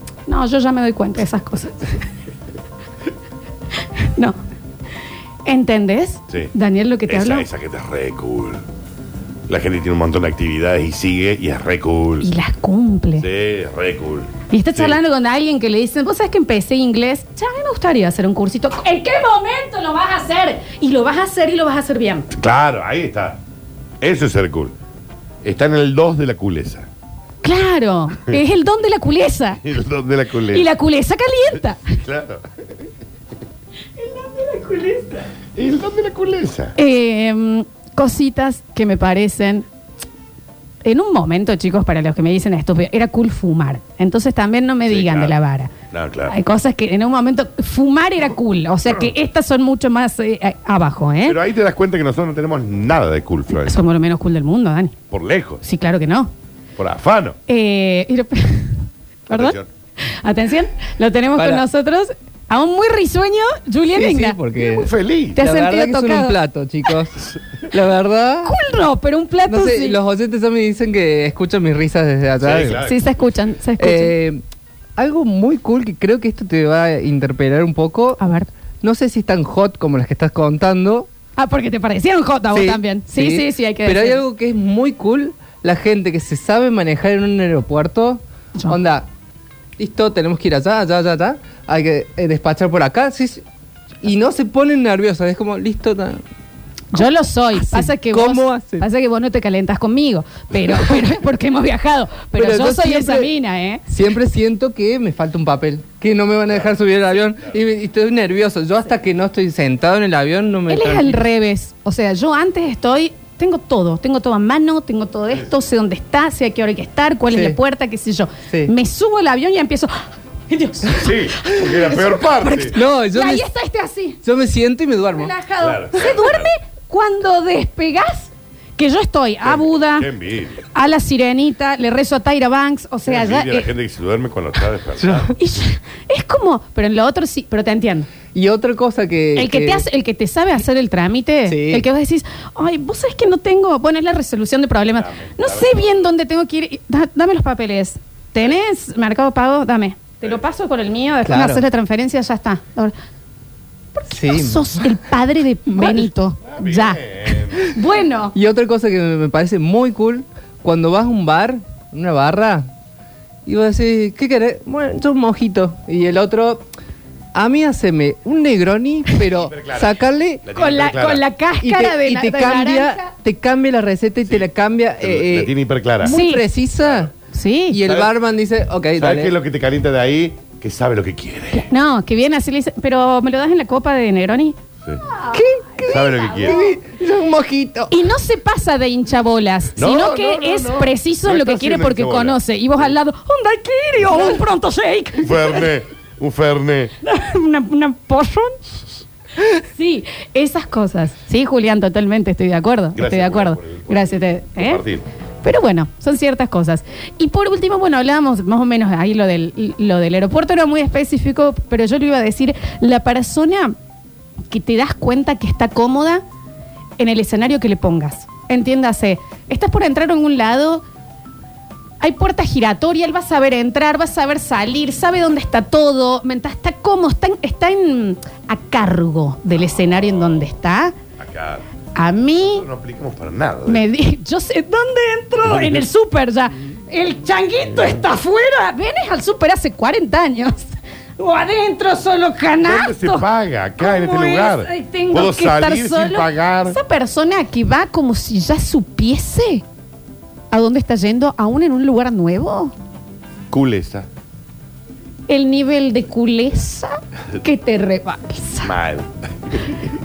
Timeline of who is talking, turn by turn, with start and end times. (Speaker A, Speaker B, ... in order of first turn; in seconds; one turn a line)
Speaker A: 0.3-1.9
Speaker A: 5.4-7.5
Speaker B: 7.1-8.6
Speaker B: 9.5-12.3
Speaker A: 12.2-13.3
Speaker B: 13.2-15.0
Speaker A: 14.5-22.3
Speaker B: 22.3-23.4
Speaker B: 24.0-24.8
Speaker B: 25.4-26.9
Speaker A: 27.4-29.6
Speaker B: 29.6-30.7
Speaker A: 30.5-32.0
Speaker B: 32.0-32.5
Speaker A: 34.0-35.2
Speaker B: 35.5-36.7
Speaker A: 36.8-39.6
Speaker A: 40.8-45.7
Speaker B: 44.9-45.4
Speaker B: 45.9-46.4
Speaker A: 46.3-51.4
Speaker B: 51.2-53.8
Speaker A: 53.5-55.0
Speaker B: 55.1-55.6
Speaker A: 55.6-56.3
Speaker B: 56.8-57.4
Speaker A: 57.5-64.4
Speaker B: 59.3-59.7
Speaker C: 61.3-61.6
Speaker C: 63.9-68.6
Speaker B: 64.5-65.4
Speaker A: 65.4-66.4
Speaker A: 68.4-70.0
Speaker C: 69.5-72.8
Speaker B: 72.4-73.0
Speaker A: 72.8-74.2
Speaker C: 73.8-74.4
Speaker C: 75.0-78.2
Speaker A: 78.2-78.5
Speaker C: 78.8-81.1
Speaker A: 81.4-84.2
Speaker C: 82.5-89.1
Speaker C: 89.8-93.4
Speaker C: 94.0-96.2
Speaker A: 96.9-103.8
Speaker C: 97.5-98.9
Speaker C: 102.3-103.3
Speaker C: 103.9-111.2
Speaker A: 110.7-119.9
Speaker C: 117.3-117.6
Speaker A: 120.5-124.2
Speaker B: 120.9-122.8
Speaker C: 122.7-123.5
Speaker C: 124.2-125.3
Speaker A: 125.1-133.7
Speaker B: 125.6-126.5
Speaker B: 129.4-130.6
Speaker B: 133.1-135.3
Speaker A: 135.3-138.1
Speaker C: 138.3-139.8
Speaker A: 139.3-152.9
Speaker C: 141.5-141.8
Speaker B: 144.9-146.1
Speaker C: 151.2-151.6
Speaker A: 153.9-158.3
Speaker C: 154.1-155.0
Speaker C: 155.7-156.1
Speaker B: 156.4-157.7
Speaker C: 158.3-162.7
Speaker C: 163.4-166.6
Speaker C: 167.3-170.4
Speaker B: 169.3-171.2
Speaker A: 170.5-173.1
Speaker C: 171.6-177.1
Speaker B: 175.0-176.2
Speaker A: 176.0-176.5
Speaker B: 176.8-177.1
Speaker A: 177.3-177.8
Speaker C: 177.7-179.3
Speaker B: 179.0-181.7
Speaker A: 181.5-186.8
Speaker C: 185.3-188.0
Speaker B: 185.9-186.6
Speaker A: 187.9-195.7
Speaker B: 189.8-192.4
Speaker B: 195.2-196.9
Speaker A: 197.0-198.6
Speaker A: 199.7-204.8
Speaker B: 202.9-205.0
Speaker A: 205.4-213.8
Speaker A: 214.5-216.2
Speaker A: 217.0-220.8
Speaker A: 222.0-230.9
Speaker B: 231.2-231.6
Speaker A: 231.9-232.7
Speaker B: 232.5-233.8
Speaker A: 233.7-240.6
Speaker B: 235.4-235.8
Speaker A: 241.2-243.2
Speaker B: 242.6-246.8
Speaker A: 243.8-249.6
Speaker A: 250.5-252.7
Speaker B: 253.5-254.1
Speaker A: 255.3-258.7
Speaker B: 258.6-259.9